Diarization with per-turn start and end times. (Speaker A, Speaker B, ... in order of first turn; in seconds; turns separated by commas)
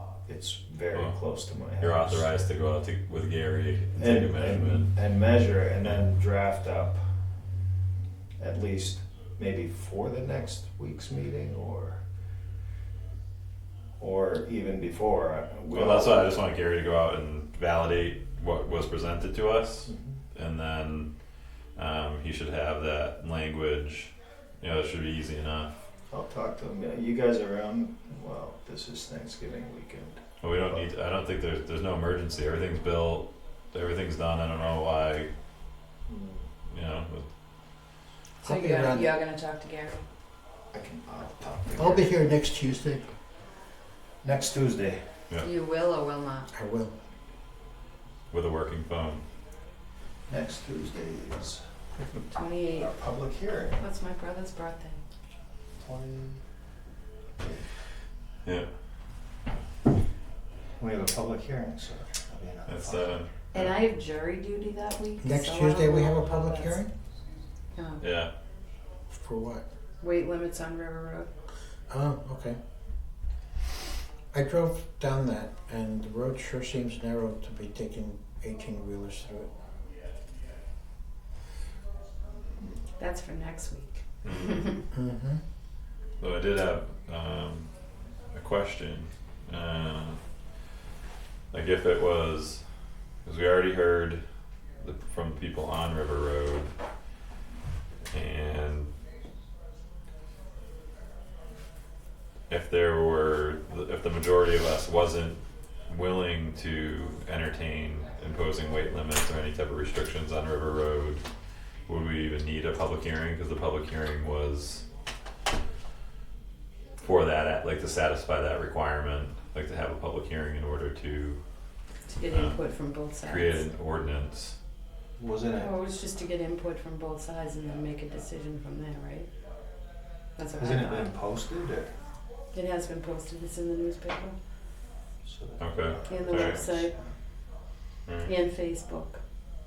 Speaker A: 0.2-2.3, Speaker B: 1.8-4.9, Speaker A: 4.0-7.0, Speaker A: 8.4-12.0, Speaker A: 14.0-16.3, Speaker B: 15.7-21.1, Speaker B: 21.8-25.8, Speaker A: 26.1-30.8, Speaker B: 30.4-35.3, Speaker A: 36.1-36.4, Speaker B: 36.7-37.2, Speaker C: 38.4-39.1, Speaker D: 38.4-40.0, Speaker A: 40.7-42.2, Speaker C: 41.7-43.1, Speaker A: 44.2-45.0, Speaker D: 45.4-46.5, Speaker C: 46.5-46.9, Speaker B: 48.3-49.2, Speaker A: 50.3-51.6, Speaker D: 52.3-52.9, Speaker A: 52.7-53.8, Speaker D: 53.8-55.0, Speaker A: 55.8-56.4, Speaker A: 57.4-57.6, Speaker A: 60.8-63.2, Speaker B: 62.6-63.7, Speaker D: 63.5-66.8, Speaker C: 65.2-66.9, Speaker D: 67.7-68.0, Speaker B: 68.0-68.3, Speaker C: 69.1-69.6, Speaker D: 70.0-71.3, Speaker C: 71.9-72.6, Speaker C: 74.3-79.5, Speaker D: 83.0-84.8, Speaker B: 84.2-84.7, Speaker C: 84.9-85.4, Speaker B: 86.2-87.7, Speaker B: 88.3-90.2, Speaker B: 91.5-92.6, Speaker B: 93.2-94.2, Speaker B: 94.8-96.7, Speaker B: 98.1-98.9, Speaker B: 102.5-111.2, Speaker B: 111.9-114.8, Speaker B: 117.0-121.4, Speaker D: 122.1-123.6, Speaker B: 122.3-122.6, Speaker B: 123.2-124.5, Speaker A: 125.2-125.7, Speaker D: 125.5-129.3, Speaker D: 130.3-131.1, Speaker A: 130.6-131.9, Speaker D: 132.5-134.3, Speaker A: 135.2-137.1, Speaker B: 135.6-136.7, Speaker D: 136.1-136.9, Speaker B: 138.1-138.3, Speaker D: 138.2-139.2